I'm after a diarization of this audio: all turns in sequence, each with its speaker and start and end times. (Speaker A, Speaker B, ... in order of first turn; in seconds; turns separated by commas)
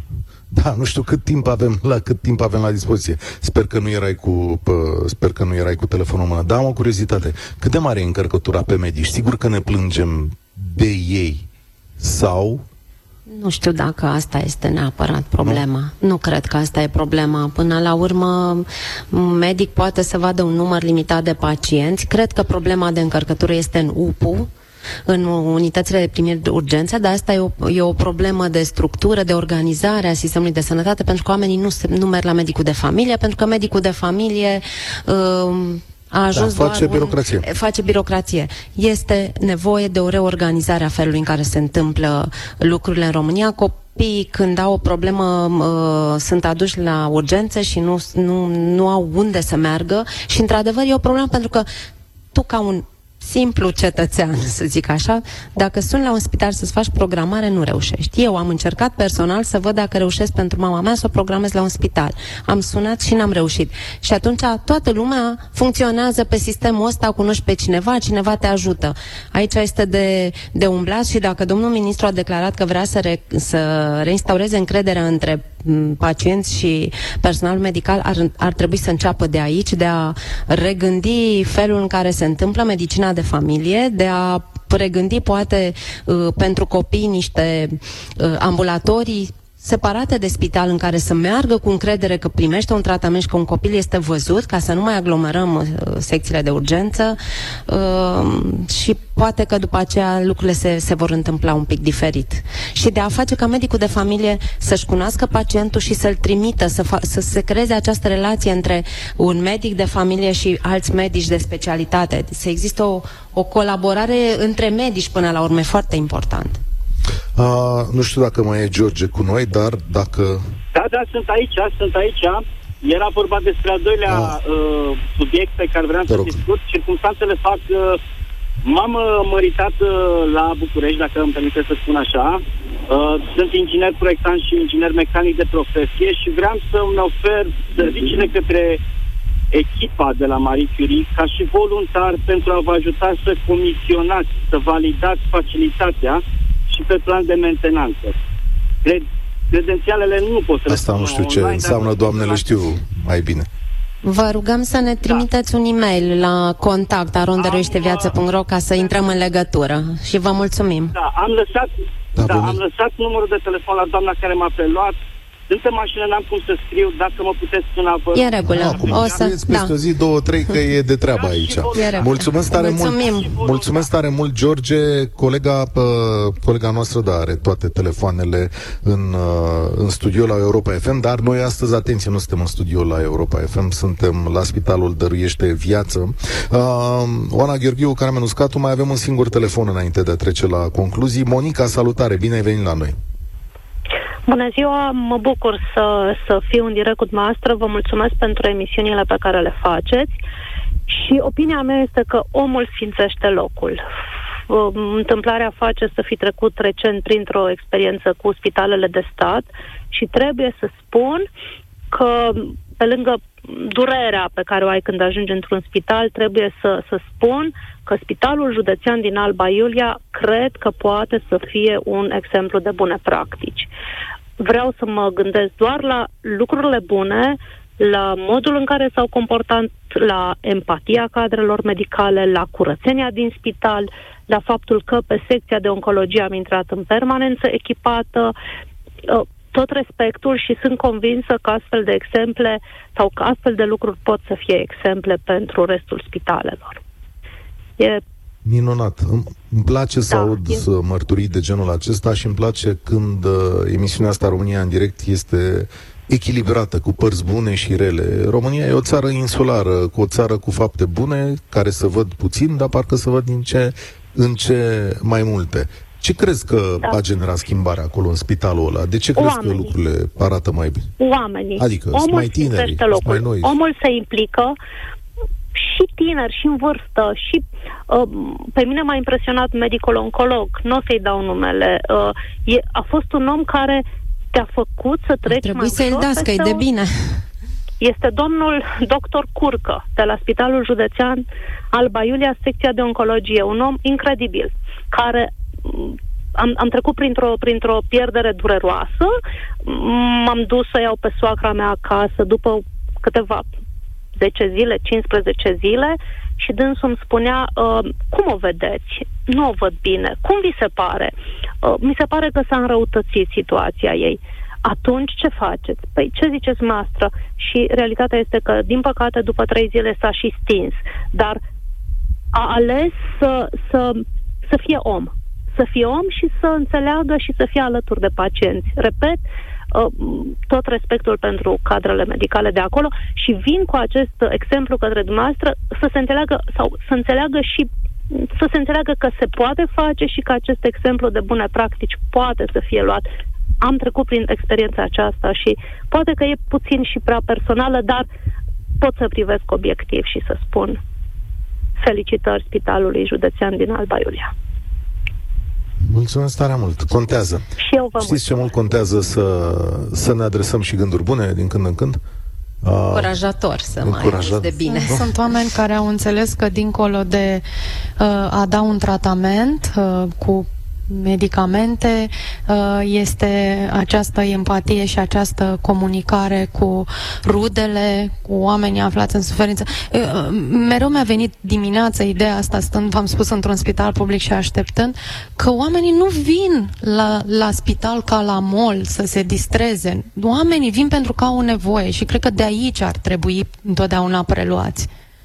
Speaker A: 0.5-11.5, Speaker A: 12.0-12.6, Speaker B: 13.3-24.5, Speaker B: 25.1-51.7, Speaker A: 36.3-37.5, Speaker B: 52.3-116.6, Speaker A: 117.4-120.4, Speaker C: 120.7-128.0, Speaker A: 124.1-124.3, Speaker A: 126.1-126.4, Speaker C: 128.6-138.8, Speaker C: 139.5-148.2, Speaker C: 148.8-152.5, Speaker A: 150.7-153.5, Speaker B: 154.0-160.9, Speaker C: 157.4-158.2, Speaker C: 158.8-159.1, Speaker C: 160.9-165.0, Speaker A: 162.2-162.6, Speaker C: 165.5-169.2, Speaker B: 168.1-169.7, Speaker A: 168.5-193.0, Speaker C: 171.1-173.9, Speaker B: 171.7-173.3, Speaker D: 194.3-200.2, Speaker D: 200.9-203.8, Speaker D: 204.5-211.3, Speaker D: 211.9-223.7, Speaker D: 224.4-238.3, Speaker D: 239.0-246.8, Speaker D: 247.8-248.0, Speaker A: 248.4-270.9, Speaker D: 250.1-250.7, Speaker D: 269.1-269.7, Speaker D: 271.0-274.6, Speaker A: 271.6-273.5, Speaker D: 275.5-286.6, Speaker B: 285.3-287.2, Speaker D: 287.8-303.5, Speaker D: 304.2-321.4, Speaker D: 322.3-343.1, Speaker D: 343.6-348.1, Speaker D: 348.8-350.8, Speaker D: 351.8-354.3, Speaker A: 355.9-362.0, Speaker D: 357.6-358.4, Speaker A: 362.6-363.2, Speaker B: 362.9-365.1, Speaker A: 363.8-365.0, Speaker E: 364.7-367.4, Speaker E: 368.0-394.9